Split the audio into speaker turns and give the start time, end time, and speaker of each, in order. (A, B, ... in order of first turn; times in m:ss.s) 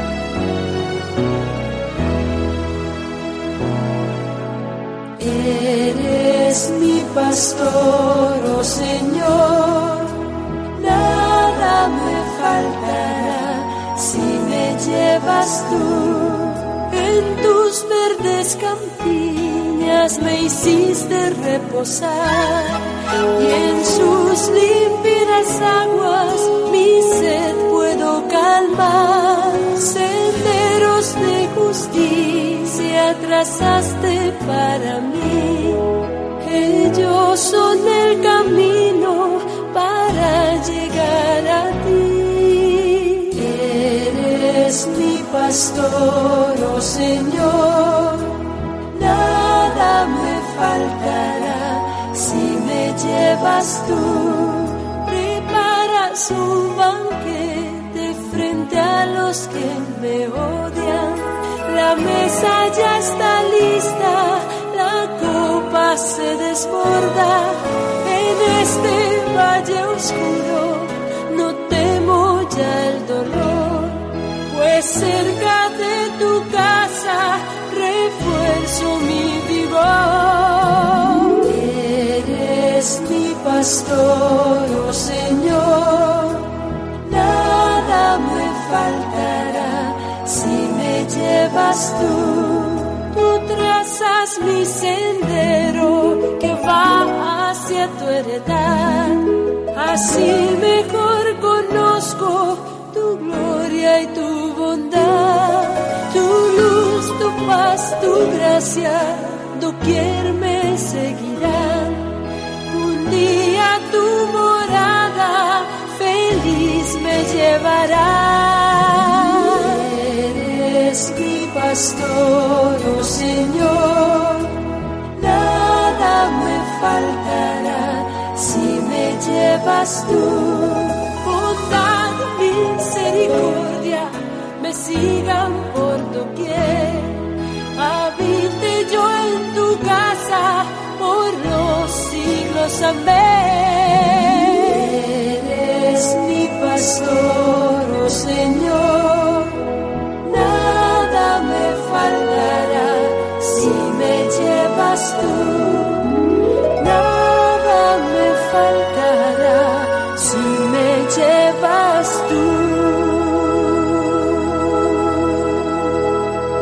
0:05.2-0:10.2 A
0:10.8-0:35.8 A
0:36.4-1:52.2 A
1:52.7-2:04.6 A
2:05.2-2:29.6 A
2:30.2-2:36.2 A
2:36.8-2:44.4 A